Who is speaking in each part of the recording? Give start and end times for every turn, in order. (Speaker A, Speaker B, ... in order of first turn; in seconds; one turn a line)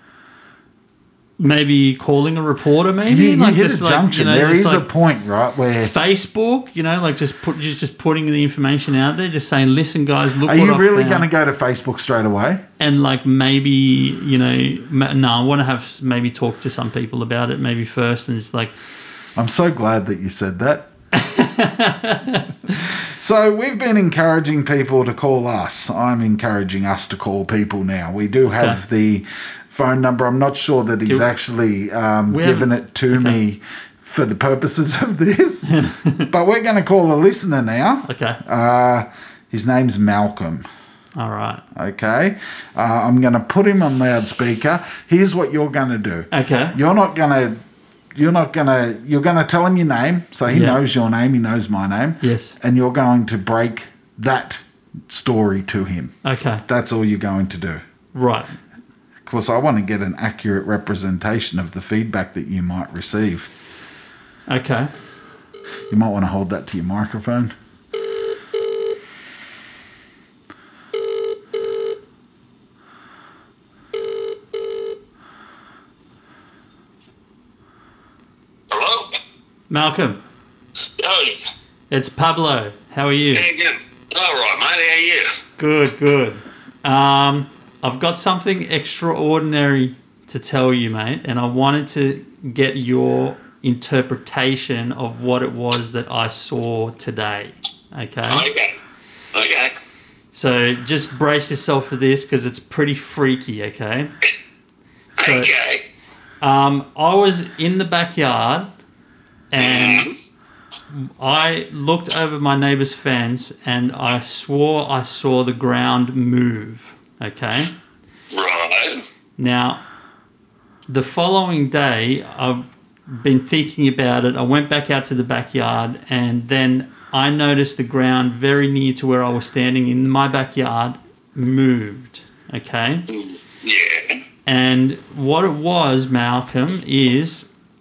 Speaker A: 1.4-4.8
Speaker B: 3.1-5.9
Speaker A: 5.8-11.3
Speaker B: 10.4-12.6
Speaker A: 12.8-18.8
Speaker B: 19.4-20.9
Speaker A: 21.1-22.7
Speaker B: 22.7-35.7
Speaker A: 28.5-28.8
Speaker A: 32.3-33.4
Speaker A: 35.7-36.3
Speaker B: 36.3-40.6
Speaker A: 38.1-38.4
Speaker A: 41.2-41.6
Speaker B: 41.8-47.6
Speaker A: 46.3-46.8
Speaker B: 48.1-57.8
Speaker A: 50.5-50.8
Speaker A: 52.2-52.6
Speaker A: 56.2-56.6
Speaker A: 58.1-58.6
Speaker B: 59.2-63.5
Speaker A: 64.5-64.9
Speaker B: 65.9-67.5
Speaker C: 78.7-79.1
Speaker A: 79.7-80.2
Speaker C: 81.0-81.4
Speaker A: 81.9-83.5
Speaker C: 83.3-85.3
Speaker A: 85.6-98.5
Speaker C: 98.3-98.8
Speaker C: 99.3-99.7
Speaker A: 100.3-104.1
Speaker C: 105.2-105.8
Speaker A: 105.2-105.5
Speaker A: 106.4-108.7
Speaker A: 109.5-110.1
Speaker C: 109.6-110.1
Speaker A: 110.9-117.7
Speaker C: 118.3-119.0
Speaker A: 119.4-119.8
Speaker A: 120.9-133.1
Speaker C: 133.1-134.2
Speaker A: 134.5-137.5